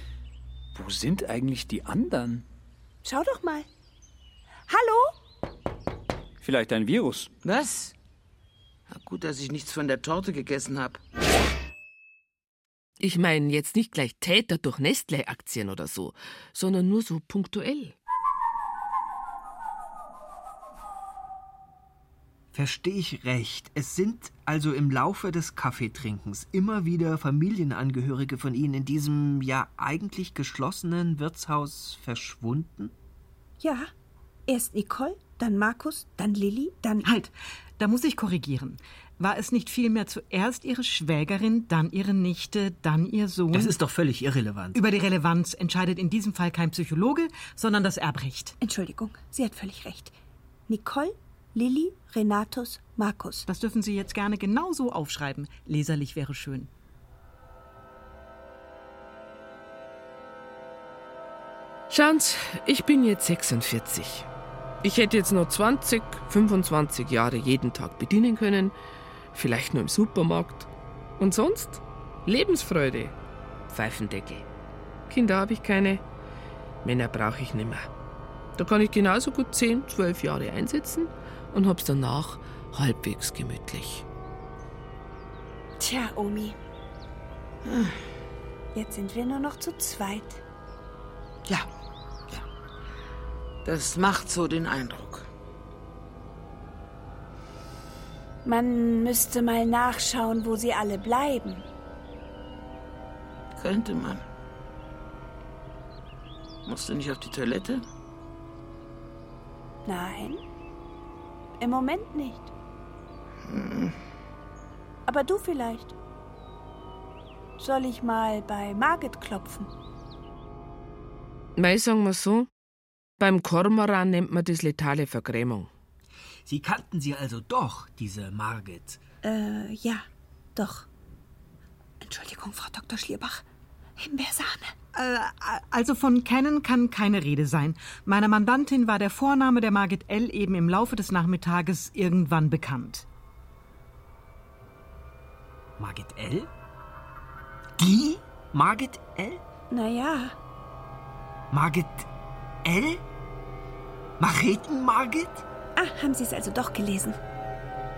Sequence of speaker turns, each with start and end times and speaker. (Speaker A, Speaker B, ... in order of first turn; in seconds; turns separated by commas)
Speaker A: 0.7-2.4, Speaker B: 3.0-3.7, Speaker B: 4.7-5.1, Speaker A: 6.4-7.3, Speaker C: 7.4-7.9, Speaker C: 8.9-11.0, Speaker D: 13.0-17.9, Speaker E: 22.5-32.9, Speaker B: 33.6-33.9, Speaker B: 34.5-37.1, Speaker F: 37.0-43.8, Speaker E: 43.5-44.8, Speaker F: 44.7-48.6, Speaker B: 48.6-50.1, Speaker B: 50.7-53.5, Speaker F: 53.5-56.7, Speaker D: 61.9-64.3, Speaker D: 64.8-68.7, Speaker D: 69.3-73.1, Speaker D: 73.7-74.5, Speaker D: 75.1-76.0, Speaker D: 76.8-77.9, Speaker D: 78.6-84.0, Speaker B: 85.8-86.6, Speaker C: 87.6-88.0, Speaker B: 88.7-90.4, Speaker C: 93.6-95.3, Speaker B: 98.4-101.6, Speaker C: 103.6-104.2, Speaker C: 106.7-107.8, Speaker B: 109.8-110.4, Speaker B: 111.6-112.5, Speaker C: 113.4-114.0, Speaker B: 115.1-115.9, Speaker B: 117.6-119.7, Speaker D: 121.6-122.5, Speaker D: 123.2-125.7, Speaker E: 126.4-129.0, Speaker B: 129.2-130.9, Speaker B: 132.0-133.4, Speaker B: 134.0-134.8, Speaker F: 134.9-143.1, Speaker E: 145.8-146.5, Speaker E: 147.8-149.4, Speaker B: 149.7-150.3, Speaker E: 151.5-152.1, Speaker E: 152.6-153.0, Speaker E: 154.2-155.4, Speaker B: 155.8-157.2